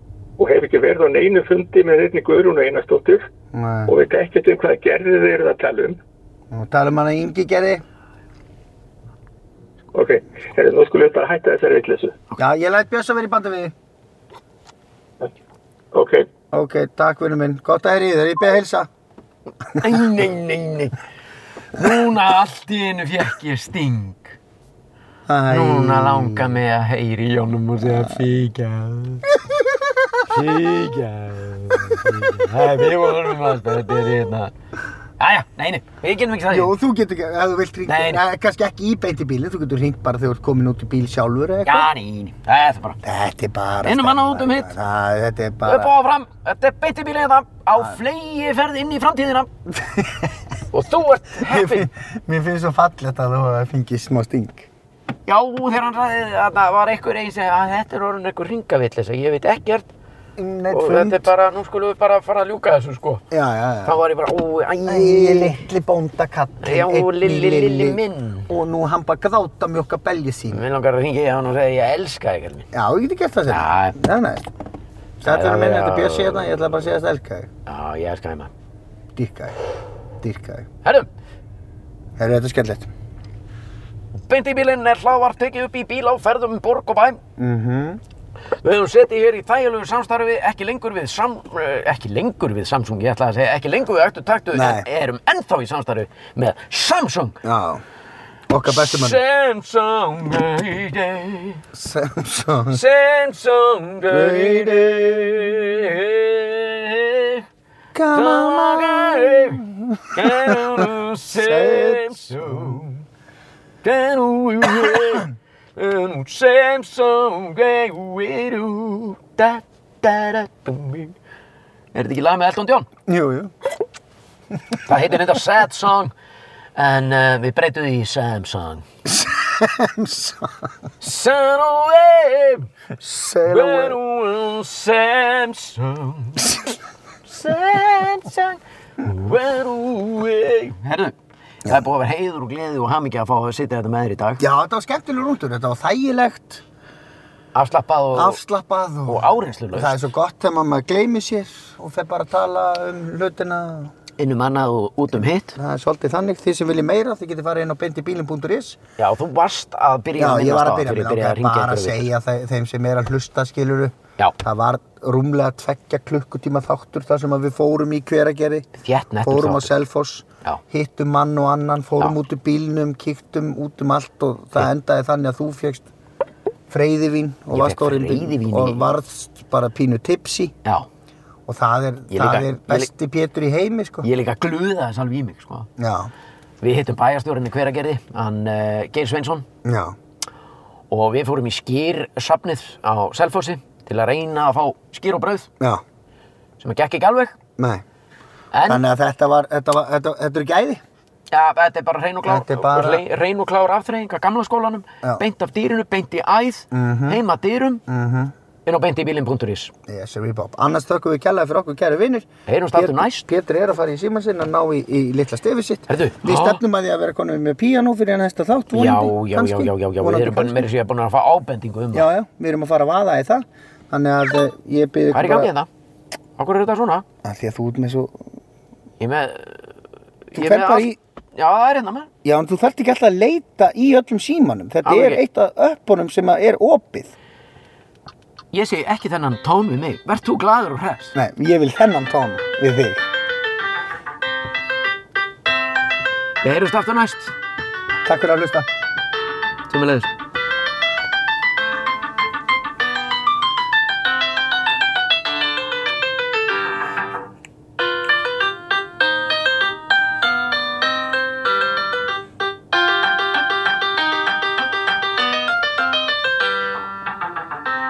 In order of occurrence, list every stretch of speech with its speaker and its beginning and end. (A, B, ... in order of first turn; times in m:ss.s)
0:00.4-0:03.2 A
0:03.5-0:03.9 B
0:03.9-0:06.0 A
0:06.5-0:07.8 B
0:09.9-0:12.2 A
0:12.4-0:13.7 B
0:15.9-0:16.3 A
0:16.5-0:18.9 B
0:19.7-0:21.0 C
0:21.7-0:24.4 C
0:25.3-0:26.6 B
0:25.5-0:29.3 C
0:27.8-0:28.2 B
0:29.3-0:30.2 B
0:30.3-0:34.5 C
0:32.6-0:33.5 B
0:35.2-0:36.7 C
0:36.5-0:41.9 B
0:37.9-0:38.2 C
0:41.6-0:43.0 C
0:43.0-0:45.9 B
0:43.8-0:44.7 C
0:45.6-0:49.5 C
0:49.7-0:50.4 B
0:50.7-0:51.9 C
0:51.4-0:54.7 B
0:55.3-0:59.9 C
1:00.4-1:01.3 B
1:00.7-1:03.2 C
1:03.3-1:04.0 B
1:03.8-1:05.6 C
1:04.8-1:10.6 B
1:06.6-1:08.5 C
1:10.5-1:12.7 C
1:12.7-1:14.4 B
1:13.5-1:14.0 C
1:15.2-1:17.5 B
1:15.2-1:16.5 C
1:17.7-1:18.5 C
1:19.2-1:19.6 B
1:20.2-1:20.7 B
1:22.2-1:22.9 B
1:24.3-1:27.2 C
1:27.4-1:28.0 B
1:28.6-1:37.4 C
1:34.5-1:34.9 B
1:37.4-1:37.8 B
1:38.5-1:39.2 B
1:38.6-1:41.6 C
1:41.7-1:42.8 B
1:42.7-1:47.4 C
1:44.1-1:45.6 B
1:47.9-1:52.8 B
1:48.1-1:53.0 C
1:53.8-2:01.2 C
2:01.9-2:02.9 C
2:03.1-2:03.5 B
2:04.9-2:06.1 C
2:06.8-2:08.8 C
2:09.1-2:10.7 B
2:11.0-2:12.7 C
2:13.0-2:14.0 B
2:13.5-2:16.6 C
2:17.3-2:21.2 C
2:21.7-2:24.4 C
2:24.4-2:26.6 B
2:27.6-2:28.4 C
2:28.1-2:33.9 B
2:29.1-2:30.1 C
2:34.2-2:35.6 C
2:35.6-2:38.8 B
2:39.0-2:42.1 C
2:40.2-2:48.7 B
2:48.8-2:49.7 C
2:49.2-2:55.9 B
2:56.7-3:00.5 B
2:57.5-2:58.9 C
3:01.5-3:04.1 B
3:02.1-3:02.9 C
3:04.0-3:05.7 C
3:05.8-3:06.1 B
3:06.6-3:09.5 C
3:09.6-3:10.0 B
3:10.9-3:15.5 C
3:16.6-3:17.4 C
3:17.6-3:17.8 B
3:18.5-3:18.8 C
3:18.7-3:20.8 B
3:21.3-3:27.8 C
3:22.2-3:23.0 B
3:26.7-3:27.2 B
3:27.9-3:28.3 B
3:28.7-3:29.7 C
3:29.9-3:40.7 B
3:32.5-3:33.3 C
3:35.9-3:36.6 C
3:38.7-3:42.1 C
3:41.9-3:45.5 B
3:45.1-3:45.7 C
3:46.4-3:47.0 C
3:47.2-3:48.2 B
3:49.0-3:49.7 C
3:50.3-3:52.1 C
3:50.4-3:51.0 B
3:52.2-3:57.1 B
3:54.8-3:55.2 C
3:58.5-4:01.2 C
4:01.2-4:03.0 B
4:06.4-4:07.3 C
4:08.0-4:08.7 B
4:09.7-4:10.1 C